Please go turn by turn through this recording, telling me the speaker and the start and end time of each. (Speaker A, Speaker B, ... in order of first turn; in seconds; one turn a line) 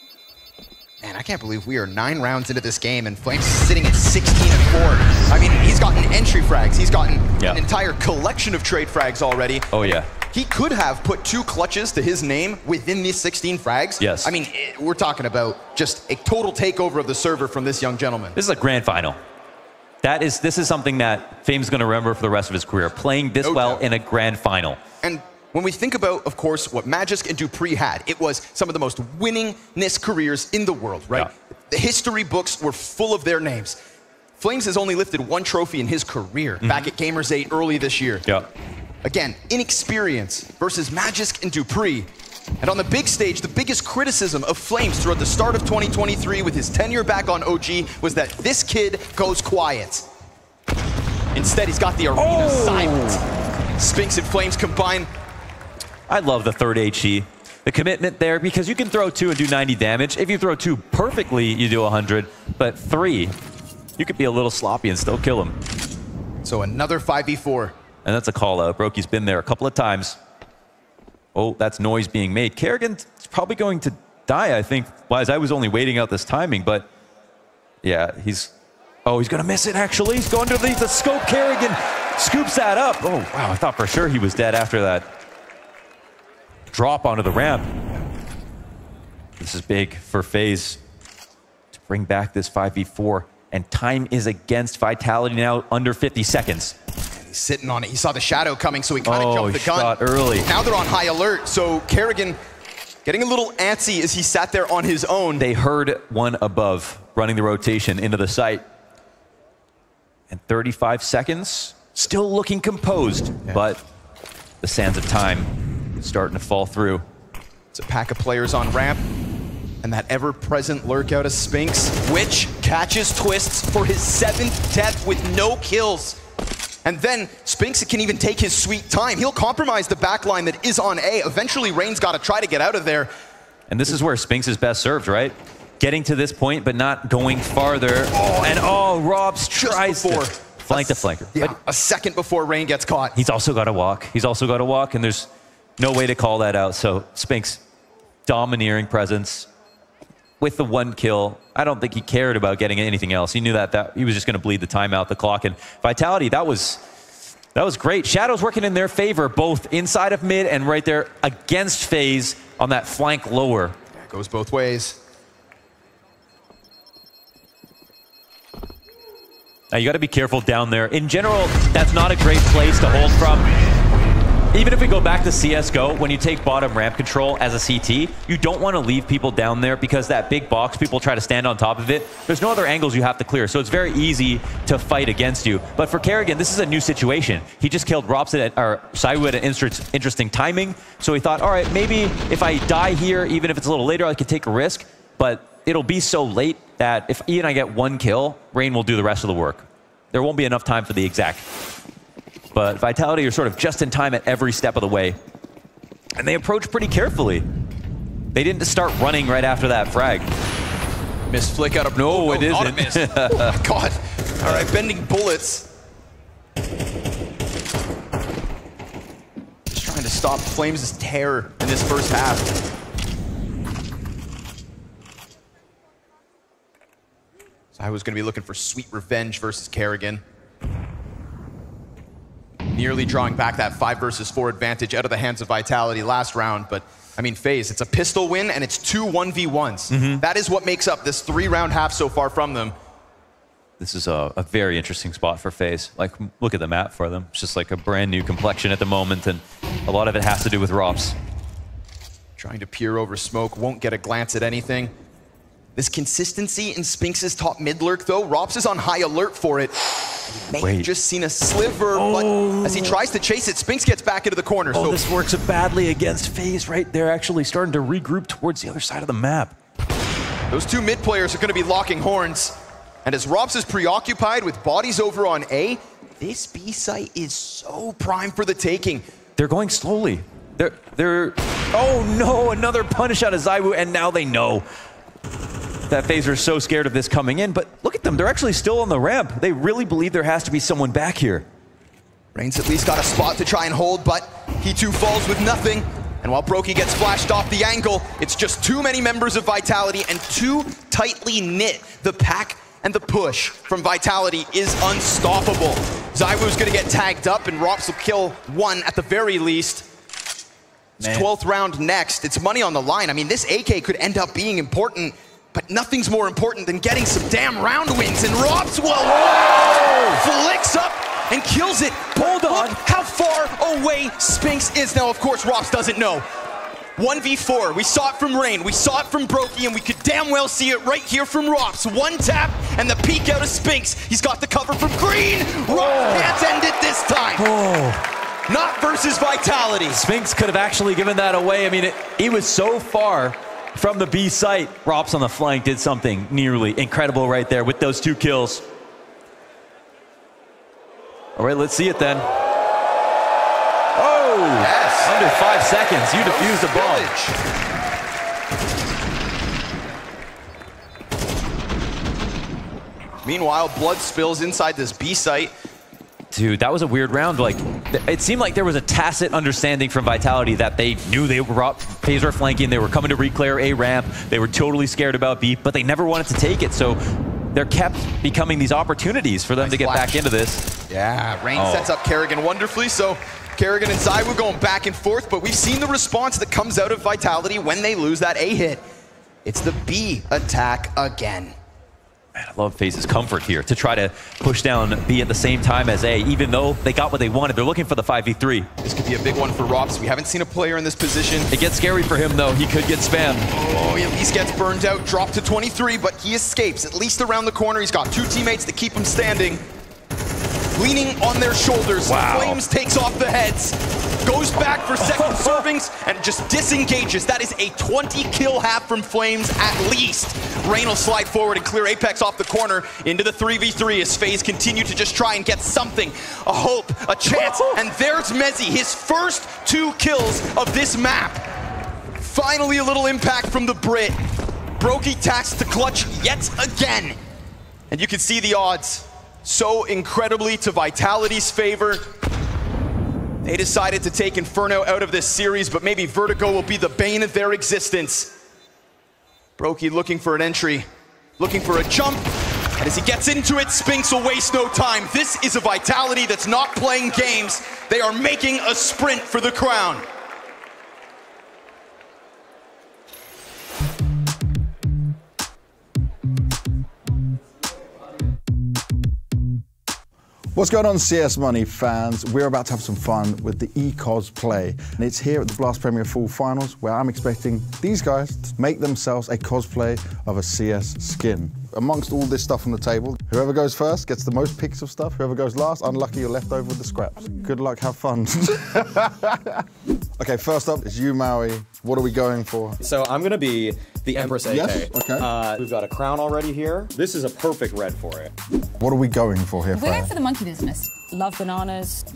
Speaker A: 1.0-18.4
Speaker B: 9.7-10.1
Speaker B: 14.0-14.3
Speaker B: 18.4-19.2
Speaker B: 20.0-24.8
Speaker A: 23.4-23.8
Speaker A: 25.0-33.8
Speaker A: 34.4-38.3
Speaker B: 36.6-36.9
Speaker A: 39.0-42.1
Speaker A: 42.6-50.1
Speaker A: 51.3-53.2
Speaker B: 52.2-53.2
Speaker A: 53.8-55.1
Speaker B: 56.1-63.4
Speaker B: 64.0-65.6
Speaker A: 66.4-67.8
Speaker B: 68.0-70.2
Speaker B: 71.3-76.9
Speaker B: 77.8-78.5
Speaker B: 79.1-85.1
Speaker B: 86.7-87.7
Speaker B: 89.4-90.8
Speaker B: 91.7-96.8
Speaker A: 97.1-102.4
Speaker B: 99.0-100.5
Speaker A: 103.0-105.5
Speaker B: 105.4-108.7
Speaker B: 110.3-113.8
Speaker B: 114.6-117.0
Speaker A: 117.7-119.0
Speaker A: 119.8-126.2
Speaker A: 126.8-133.1
Speaker B: 133.7-141.6
Speaker A: 138.1-138.7
Speaker A: 139.5-143.2
Speaker B: 143.2-147.6
Speaker B: 148.3-149.5
Speaker B: 150.4-156.8
Speaker B: 157.6-163.8
Speaker A: 163.9-165.0
Speaker B: 169.7-173.5
Speaker B: 174.5-201.5
Speaker B: 202.5-205.2
Speaker B: 206.2-207.5
Speaker B: 208.3-210.3
Speaker A: 211.3-215.7
Speaker B: 212.0-213.6
Speaker A: 219.7-222.6
Speaker A: 227.8-230.2
Speaker A: 232.7-242.8
Speaker B: 239.9-240.2
Speaker B: 243.8-251.2
Speaker A: 252.4-254.9
Speaker A: 255.8-265.0
Speaker B: 260.6-260.9
Speaker B: 261.9-263.0
Speaker B: 264.7-269.6
Speaker A: 270.5-279.0
Speaker B: 279.4-284.7
Speaker B: 285.9-291.5
Speaker A: 292.3-309.9
Speaker A: 311.0-326.3
Speaker B: 311.0-311.3
Speaker B: 319.7-320.2
Speaker B: 322.1-322.8
Speaker A: 327.0-337.5
Speaker B: 335.7-336.4
Speaker B: 337.4-338.0
Speaker A: 338.5-340.1
Speaker B: 339.9-348.6
Speaker B: 351.4-352.3
Speaker B: 353.9-357.1
Speaker A: 354.6-355.1
Speaker A: 356.2-357.4
Speaker A: 363.2-365.5
Speaker B: 366.3-377.0
Speaker B: 377.5-380.6
Speaker A: 379.6-380.2
Speaker A: 380.9-388.8
Speaker B: 381.6-381.9
Speaker A: 389.4-391.6
Speaker B: 392.4-398.7
Speaker A: 398.8-401.5
Speaker B: 401.5-403.5
Speaker A: 403.5-409.6
Speaker A: 410.8-431.4
Speaker B: 412.1-412.6
Speaker B: 415.2-415.6
Speaker A: 432.2-434.2
Speaker A: 434.8-437.2
Speaker A: 437.9-442.1
Speaker A: 443.4-448.4
Speaker A: 449.6-450.9
Speaker A: 451.4-460.1
Speaker C: 470.6-489.6
Speaker C: 490.2-492.8
Speaker D: 492.8-498.3
Speaker C: 494.2-495.3
Speaker C: 498.8-500.1
Speaker E: 499.7-502.1